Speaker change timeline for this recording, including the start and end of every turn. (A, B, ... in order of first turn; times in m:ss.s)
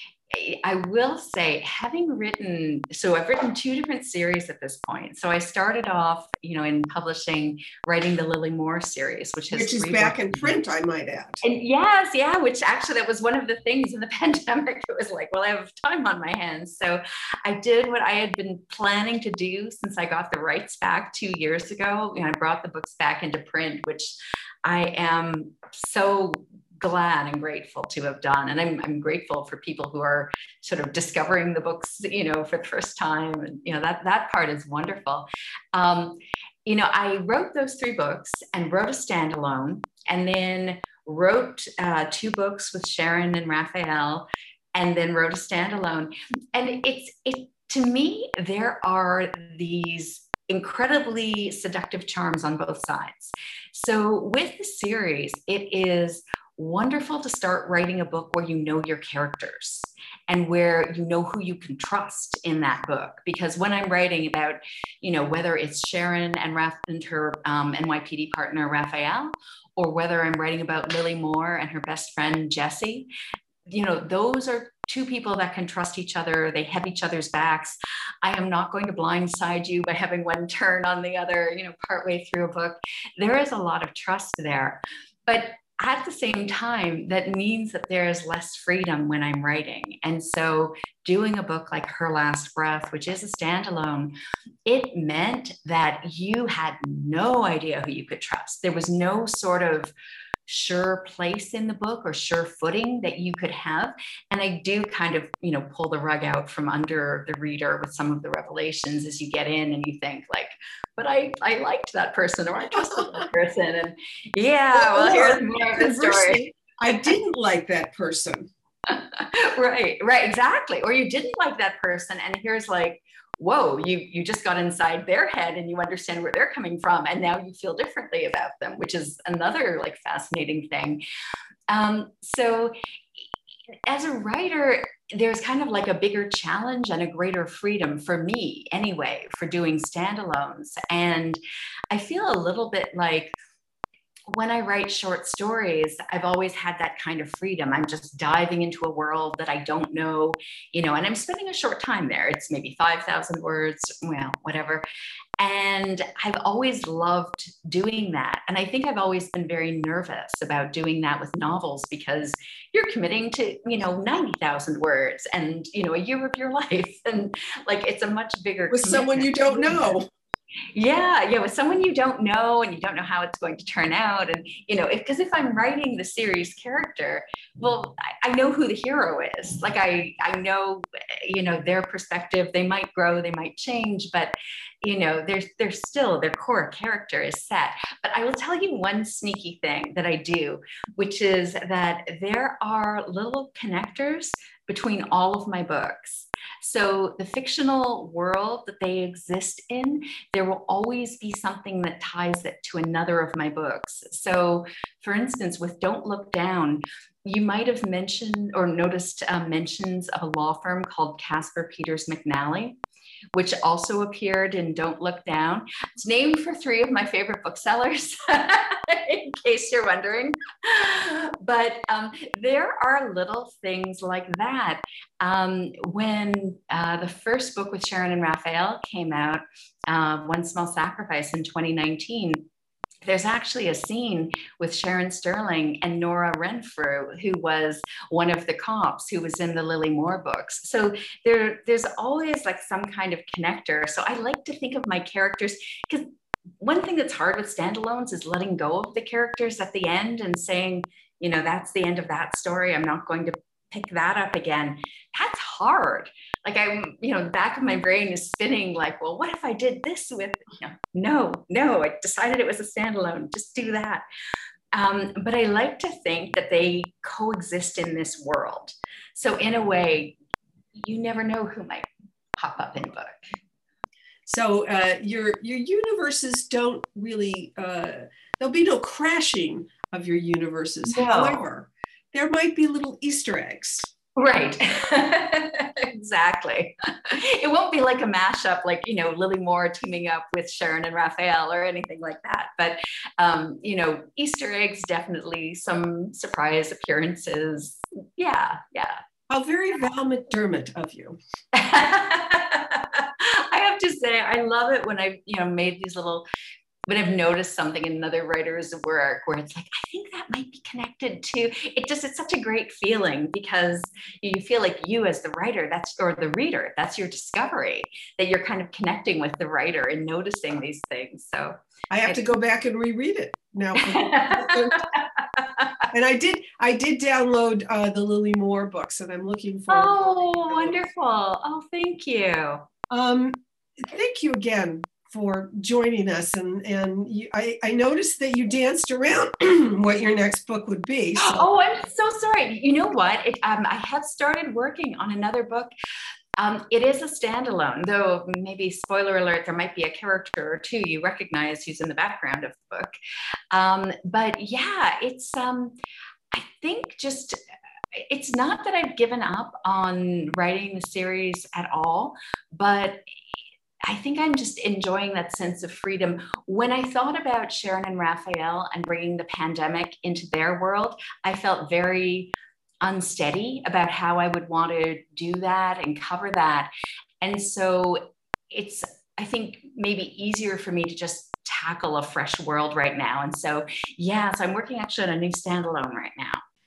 0:00.3-0:10.6 A
0:09.5-0:11.4 B
0:11.4-1:13.1 A
1:13.7-1:34.2 A
1:34.7-1:39.9 A
1:40.5-1:56.4 A
1:52.7-1:53.3 B
1:54.7-1:58.5 B
1:58.9-2:11.0 A
2:11.7-2:13.2 A
2:13.9-2:21.4 A
2:21.9-2:23.4 A
2:24.3-2:34.8 A
2:35.4-2:49.8 A
2:48.7-2:50.1 B
2:50.7-3:32.8 A
3:33.3-3:52.5 A
3:53.0-4:06.1 A
4:06.6-4:24.0 A
4:24.7-4:30.2 A
4:30.8-4:33.2 A
4:34.3-4:43.9 B
4:40.9-4:41.4 A
4:44.2-4:59.0 A
4:59.3-5:01.2 B
5:01.5-5:06.3 A
5:06.9-5:22.2 A
5:21.9-5:24.9 B
5:23.8-5:25.7 A
5:25.9-5:30.9 B
5:29.7-5:32.7 A
5:32.9-5:41.5 B
5:41.2-5:45.7 A
5:46.4-5:53.0 A
5:53.5-5:55.8 A
5:56.3-5:57.4 A
5:58.0-6:03.0 A
6:03.8-6:26.4 A